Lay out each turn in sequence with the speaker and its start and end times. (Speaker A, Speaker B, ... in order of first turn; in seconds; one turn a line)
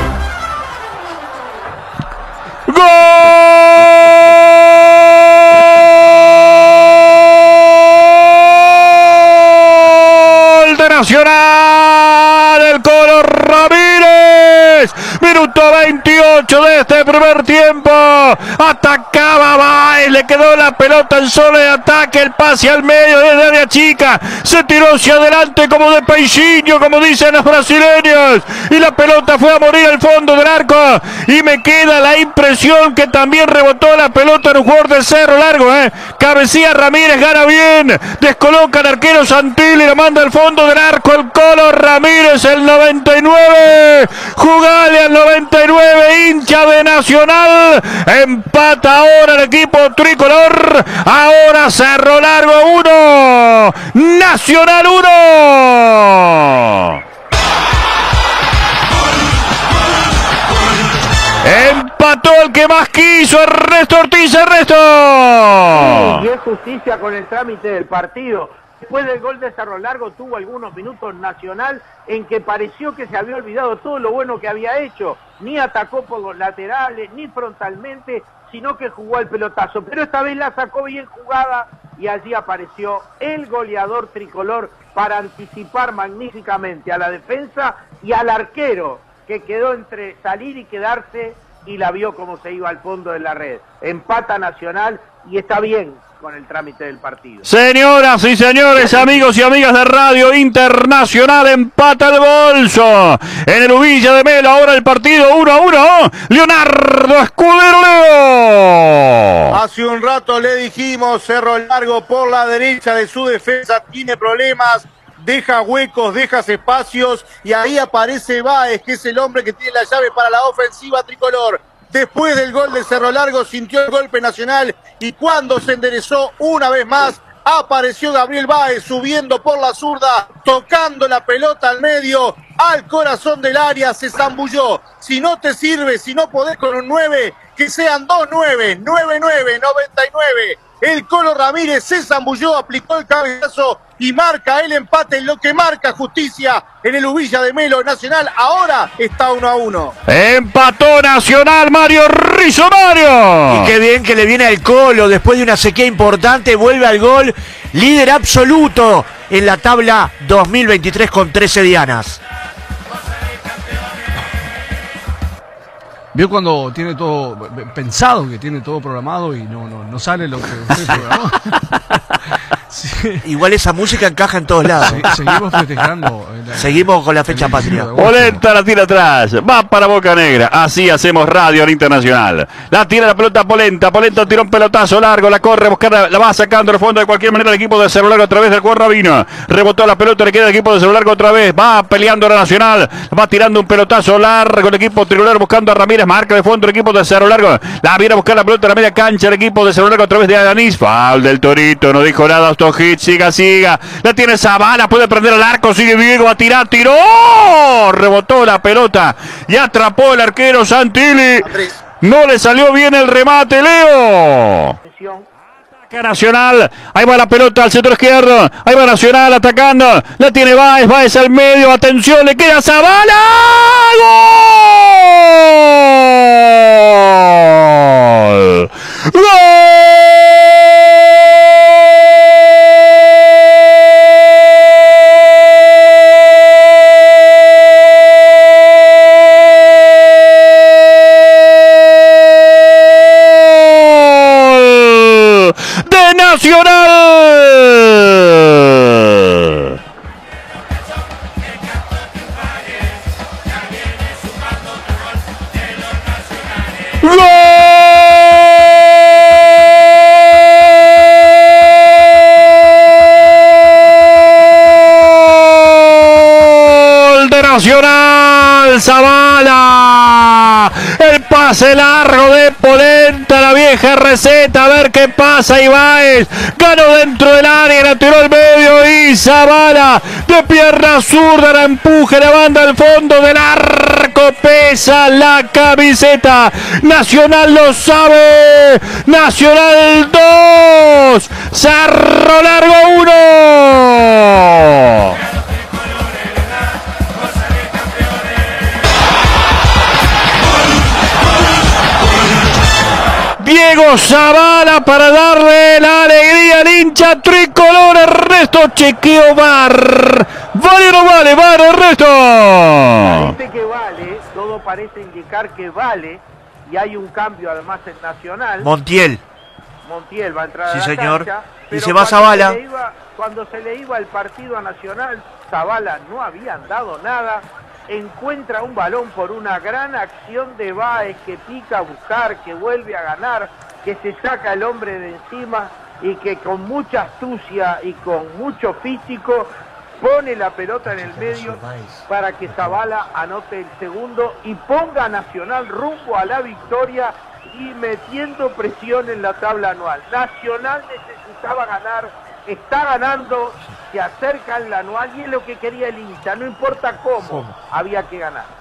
Speaker A: 2.7-57.0
Speaker A: 61.4-66.2
Speaker B: 65.7-97.5
Speaker A: 97.4-109.5
Speaker C: 109.5-149.9
Speaker A: 150.1-153.7
Speaker D: 153.5-162.2
Speaker E: 166.1-173.2
Speaker D: 173.2-175.0
Speaker E: 174.8-178.4
Speaker A: 175.1-175.4
Speaker D: 176.6-177.9
Speaker A: 177.9-214.7
Speaker C: 211.4-211.7
Speaker B: 214.8-215.2
Speaker A: 215.9-230.2
Speaker A: 242.7-249.7
Speaker A: 257.0-259.5
Speaker A: 264.5-295.1
Speaker A: 303.4-313.3
Speaker B: 313.0-318.7
Speaker D: 318.6-319.2
Speaker B: 319.8-339.5
Speaker D: 320.6-322.6
Speaker B: 340.0-358.5
Speaker D: 340.9-342.8